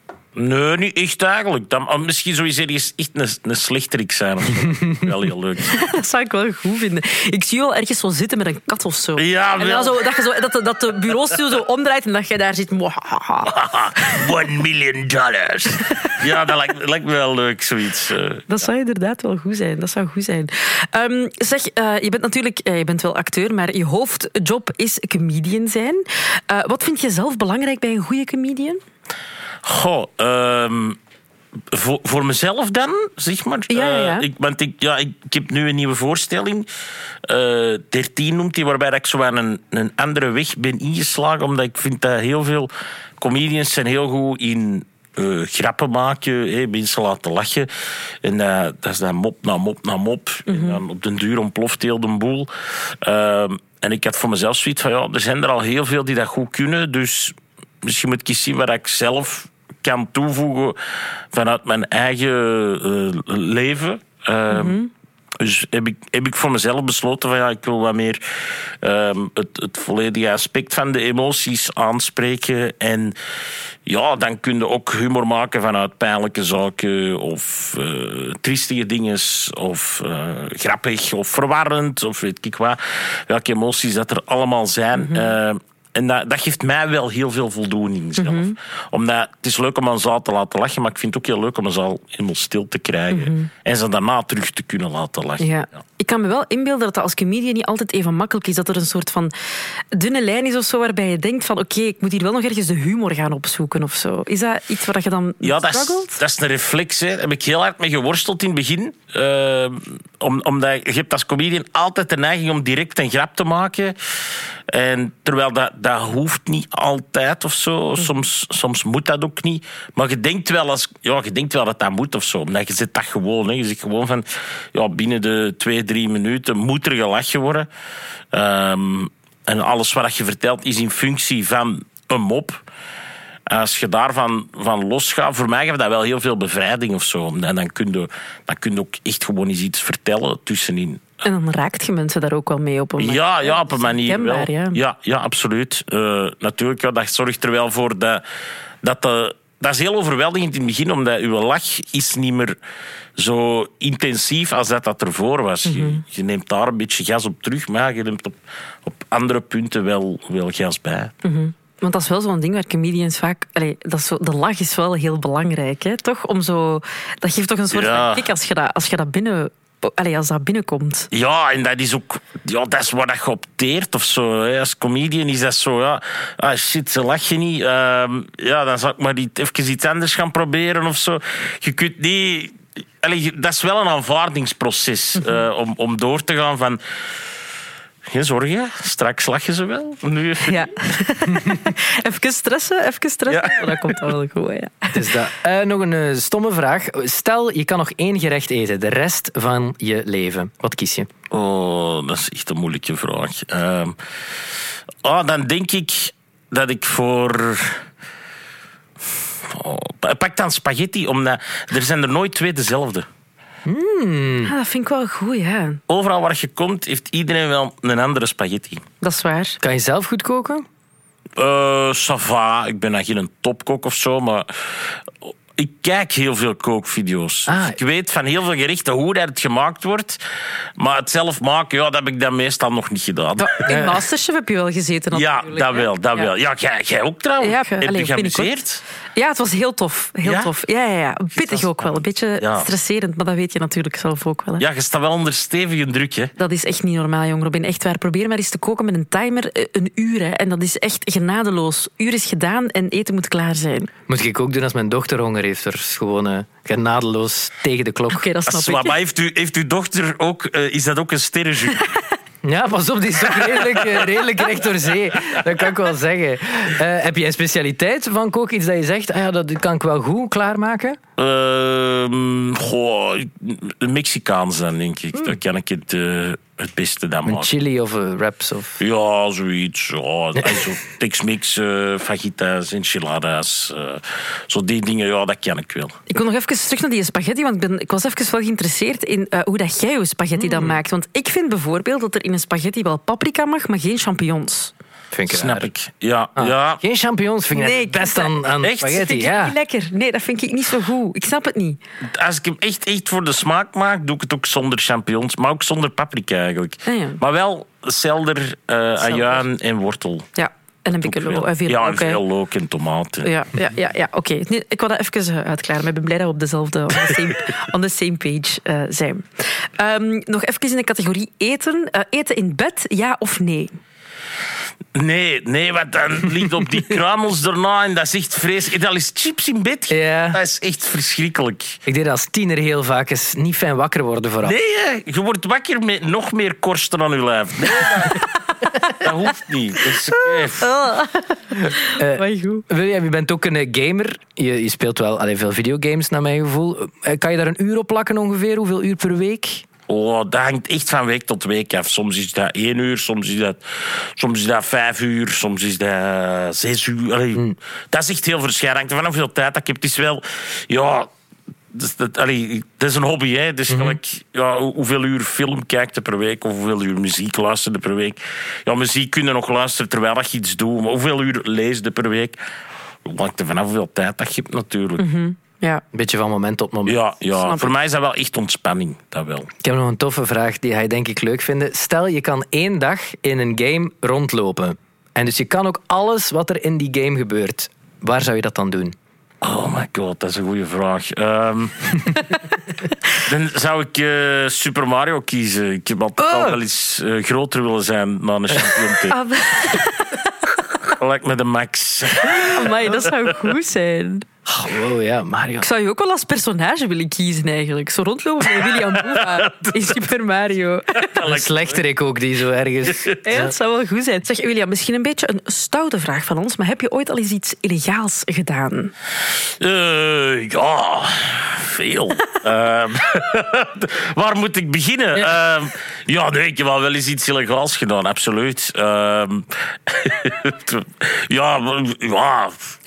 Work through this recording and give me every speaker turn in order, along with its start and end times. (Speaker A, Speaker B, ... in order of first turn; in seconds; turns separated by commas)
Speaker A: 0.4-5.8, Speaker B: 5.7-14.2, Speaker A: 9.2-10.1, Speaker A: 13.5-18.6, Speaker B: 15.8-16.2, Speaker B: 18.5-28.8, Speaker A: 29.6-31.0, Speaker A: 31.7-36.7, Speaker B: 33.7-34.3, Speaker A: 37.3-47.7, Speaker A: 48.2-60.8, Speaker B: 50.5-50.8, Speaker A: 61.3-64.8, Speaker B: 64.5-64.9, Speaker A: 65.4-68.2, Speaker A: 68.8-73.2, Speaker A: 73.9-95.8, Speaker B: 85.0-85.3, Speaker B: 88.2-88.5, Speaker B: 93.1-93.5, Speaker B: 95.4-99.3, Speaker B: 99.9-106.2, Speaker A: 105.4-114.0, Speaker A: 114.7-127.7, Speaker A: 128.3-132.6, Speaker A: 133.5-141.2, Speaker B: 141.2-144.8, Speaker A: 143.0-148.2, Speaker A: 148.8-152.6, Speaker A: 153.2-161.1, Speaker B: 155.7-156.0, Speaker B: 161.2-171.1, Speaker A: 167.7-168.3, Speaker A: 171.1-186.8, Speaker A: 188.1-190.7, Speaker B: 190.4-195.1, Speaker A: 193.3-194.1, Speaker C: 194.9-201.1, Speaker A: 201.3-204.0, Speaker A: 205.0-207.8, Speaker A: 209.5-213.1, Speaker C: 213.7-214.5, Speaker B: 214.4-215.8, Speaker A: 215.9-218.8, Speaker B: 219.0-219.6, Speaker C: 219.6-220.7, Speaker A: 221.4-230.2, Speaker C: 227.5-227.8, Speaker A: 230.8-233.6, Speaker B: 233.4-236.3, Speaker C: 233.7-234.0, Speaker A: 235.1-238.8, Speaker B: 237.4-238.6, Speaker B: 239.1-244.6, Speaker A: 240.2-240.5, Speaker A: 241.4-242.7, Speaker A: 244.6-246.3, Speaker B: 246.4-253.9, Speaker C: 254.1-258.2, Speaker B: 258.1-258.9, Speaker A: 258.5-261.9, Speaker C: 262.4-271.0, Speaker A: 263.3-264.2, Speaker A: 271.2-277.5, Speaker C: 277.3-278.8, Speaker A: 278.8-286.0, Speaker C: 280.4-280.6, Speaker B: 286.1-294.7, Speaker C: 290.4-290.8, Speaker C: 295.1-295.7, Speaker A: 295.3-296.8, Speaker C: 296.4-299.6, Speaker B: 297.6-301.8, Speaker A: 298.6-299.1, Speaker A: 302.0-310.3, Speaker B: 306.9-307.2, Speaker B: 309.0-309.4, Speaker B: 310.4-312.2, Speaker A: 311.0-313.3, Speaker B: 313.2-323.8, Speaker A: 324.9-331.8, Speaker C: 329.9-330.4, Speaker C: 331.9-334.6, Speaker A: 334.4-338.3, Speaker A: 338.9-340.7, Speaker B: 340.1-342.6, Speaker C: 341.9-349.7, Speaker A: 349.9-361.1, Speaker A: 361.7-372.4, Speaker C: 363.7-364.0, Speaker A: 373.1-375.0, Speaker B: 375.0-375.8, Speaker C: 375.9-377.0, Speaker A: 376.9-379.5, Speaker B: 377.3-377.7, Speaker C: 379.6-389.0, Speaker A: 389.4-392.2, Speaker A: 393.2-399.2, Speaker C: 396.2-396.6, Speaker C: 398.5-398.9, Speaker B: 399.1-400.2, Speaker A: 400.8-403.5, Speaker B: 402.3-404.3, Speaker C: 404.5-405.7, Speaker B: 405.6-411.1, Speaker A: 408.6-410.0, Speaker A: 411.0-411.8, Speaker C: 411.2-413.5, Speaker A: 412.9-413.2, Speaker B: 413.2-418.9, Speaker A: 419.6-432.8